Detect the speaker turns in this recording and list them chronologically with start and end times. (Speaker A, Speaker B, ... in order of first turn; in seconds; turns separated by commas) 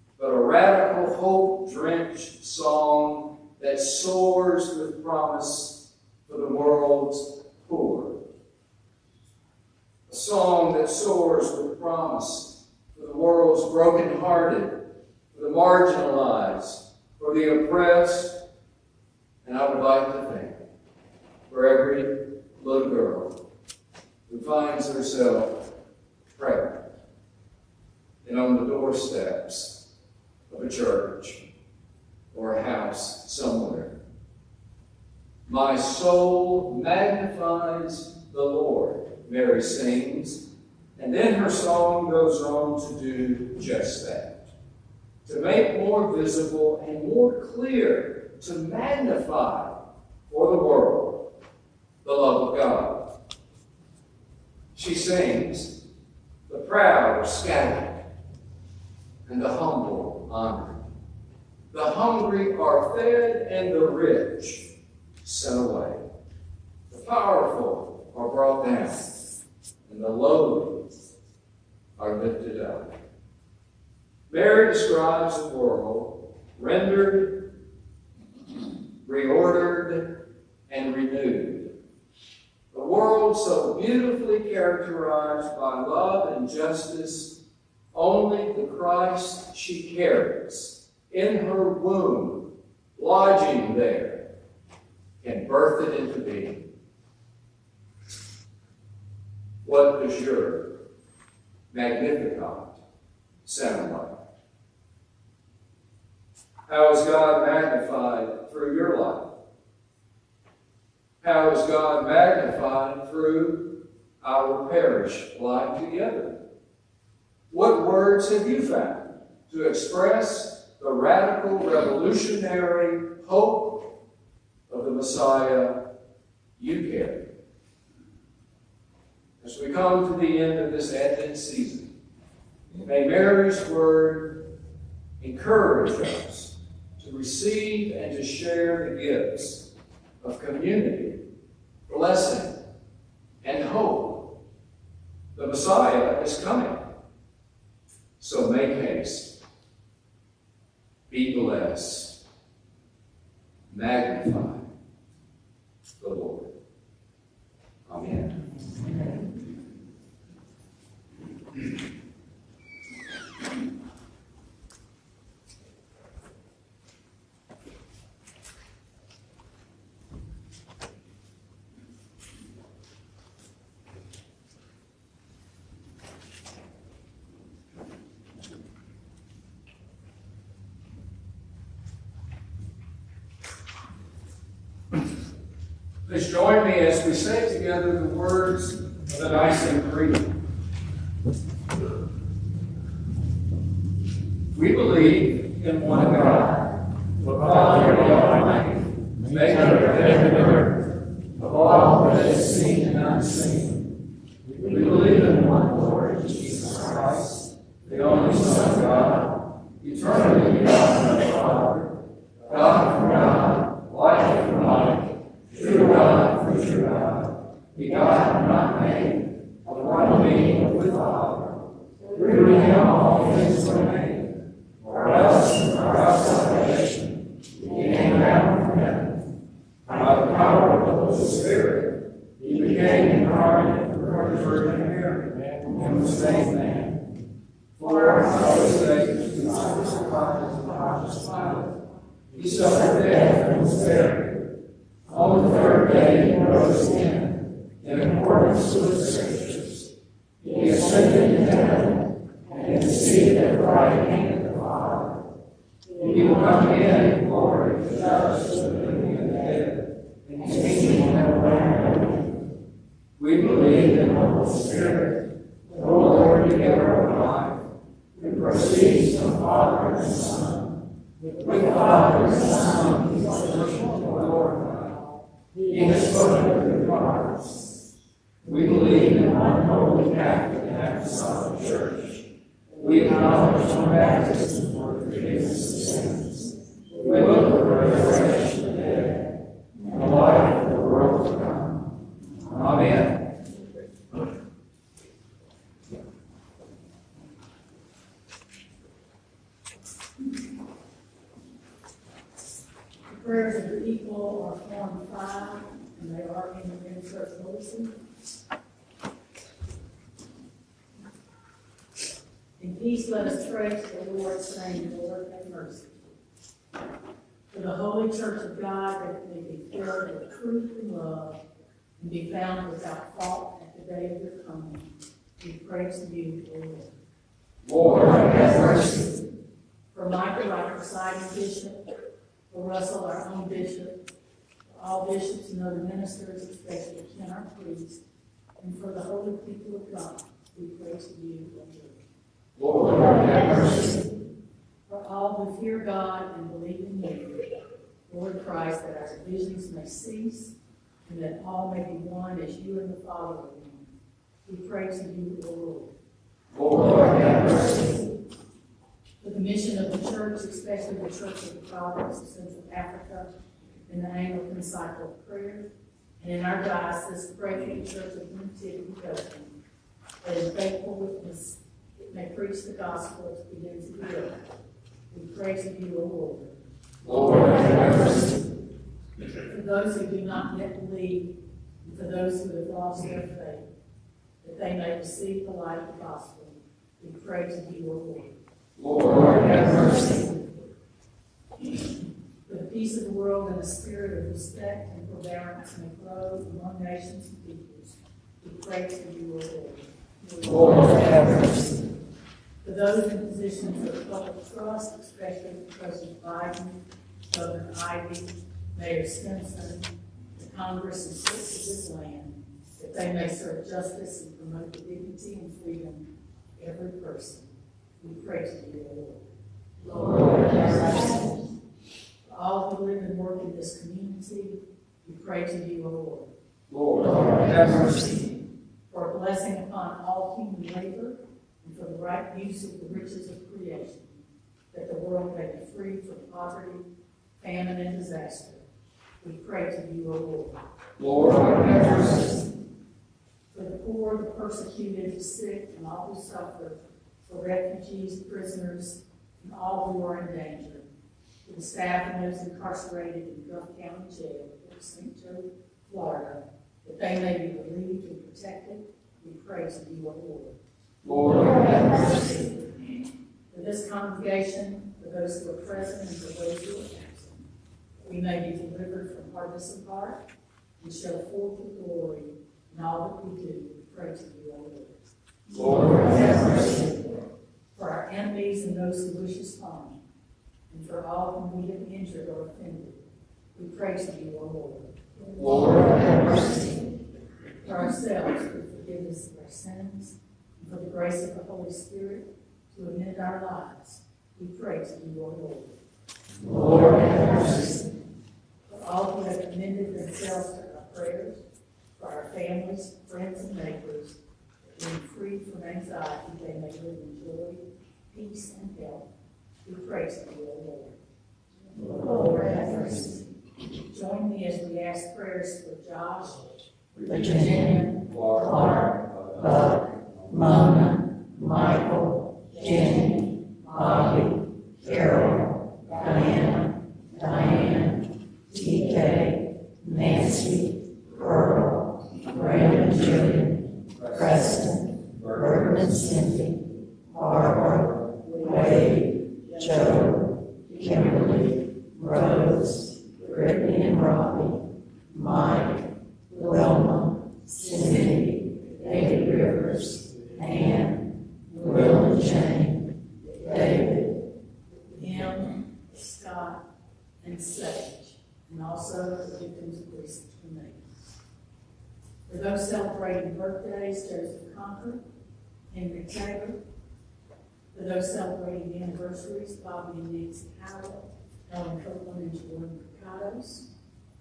Speaker A: 0.2-8.2, Speaker A: 10.1-14.8, Speaker A: 15.3-18.4, Speaker A: 19.4-20.6, Speaker A: 21.5-23.4, Speaker A: 24.3-25.7, Speaker A: 26.3-26.8, Speaker A: 28.2-29.8, Speaker A: 30.5-31.4, Speaker A: 32.3-33.9, Speaker A: 35.5-40.4, Speaker A: 41.0-44.5, Speaker A: 45.2-49.8, Speaker A: 50.3-51.3, Speaker A: 52.0-53.1, Speaker A: 54.7-55.8, Speaker A: 56.5-58.0, Speaker A: 59.3-60.8, Speaker A: 61.7-64.7, Speaker A: 65.2-66.0, Speaker A: 66.9-69.1, Speaker A: 69.8-70.9, Speaker A: 72.0-72.9, Speaker A: 74.3-77.5, Speaker A: 79.0-80.2, Speaker A: 80.7-81.7, Speaker A: 82.7-87.4, Speaker A: 87.9-94.2, Speaker A: 95.2-96.6, Speaker A: 99.6-100.7, Speaker A: 101.7-102.8, Speaker A: 103.4-104.2, Speaker A: 106.7-109.3, Speaker A: 111.2-116.3, Speaker A: 117.5-123.9, Speaker A: 124.7-125.8, Speaker A: 126.6-127.2, Speaker A: 129.4-131.9, Speaker A: 132.8-134.4, Speaker A: 135.2-139.7, Speaker A: 140.2-141.2, Speaker A: 141.9-142.6, Speaker A: 143.4-144.3, Speaker A: 145.3-146.8, Speaker A: 148.2-149.4, Speaker A: 151.1-152.2, Speaker A: 153.7-154.7, Speaker A: 156.0-156.5, Speaker A: 157.9-158.4, Speaker A: 186.1-190.3, Speaker A: 194.5-196.6, Speaker A: 197.2-200.8, Speaker A: 201.4-203.8, Speaker A: 204.6-211.9, Speaker A: 212.5-228.9, Speaker A: 229.9-237.0, Speaker A: 237.8-241.7, Speaker A: 242.3-244.4, Speaker A: 245.1-249.9, Speaker A: 250.4-251.9, Speaker A: 252.6-254.0, Speaker A: 256.0-262.1, Speaker A: 263.2-265.2, Speaker A: 265.7-267.6, Speaker A: 268.2-270.5, Speaker A: 271.4-275.0, Speaker A: 275.7-277.4, Speaker A: 278.4-282.2, Speaker A: 282.8-286.3, Speaker A: 287.0-289.2, Speaker A: 289.9-291.7, Speaker A: 292.5-293.3, Speaker B: 303.1-307.9, Speaker B: 312.6-315.9, Speaker B: 317.5-321.4, Speaker B: 322.0-324.9, Speaker B: 325.4-326.9, Speaker A: 327.6-329.0, Speaker B: 329.9-331.8, Speaker B: 332.5-334.0, Speaker B: 334.7-338.0, Speaker B: 338.6-342.0, Speaker A: 342.6-344.0, Speaker B: 344.9-347.4, Speaker B: 348.1-350.5, Speaker B: 351.0-353.9, Speaker B: 354.4-355.9, Speaker A: 356.5-357.8, Speaker B: 359.2-363.3, Speaker B: 363.9-365.7, Speaker B: 366.2-369.5, Speaker B: 370.2-374.3, Speaker B: 375.1-376.5, Speaker A: 377.0-378.2, Speaker B: 379.4-381.3, Speaker B: 381.8-383.6, Speaker B: 384.4-388.3, Speaker A: 388.8-390.1, Speaker B: 392.4-401.1, Speaker A: 400.4-401.6, Speaker B: 402.6-406.8, Speaker B: 407.3-419.2, Speaker B: 419.9-421.2, Speaker B: 422.3-426.3, Speaker A: 426.7-428.2, Speaker B: 428.9-436.8, Speaker B: 437.4-438.6, Speaker B: 439.2-440.6, Speaker A: 441.0-442.3, Speaker B: 443.5-450.9, Speaker B: 451.4-460.6, Speaker A: 461.0-462.2, Speaker B: 463.5-467.4, Speaker B: 468.0-470.2, Speaker B: 470.8-475.0, Speaker A: 475.5-476.8, Speaker B: 477.7-480.0, Speaker B: 480.7-483.0, Speaker B: 483.5-485.0, Speaker A: 485.4-486.0, Speaker C: 485.9-486.7, Speaker B: 487.6-495.8, Speaker A: 496.5-497.6, Speaker B: 498.7-501.4, Speaker B: 501.9-504.1, Speaker B: 504.8-509.1, Speaker B: 509.6-511.0, Speaker B: 512.0-513.2, Speaker B: 513.9-516.5, Speaker C: 517.0-517.9, Speaker A: 518.0-520.4, Speaker C: 520.3-536.6, Speaker A: 534.0-534.3, Speaker A: 535.2-535.8, Speaker C: 537.1-554.1, Speaker B: 555.0-556.6, Speaker B: 557.2-560.8, Speaker B: 562.3-565.0, Speaker B: 565.7-566.6, Speaker B: 567.7-573.6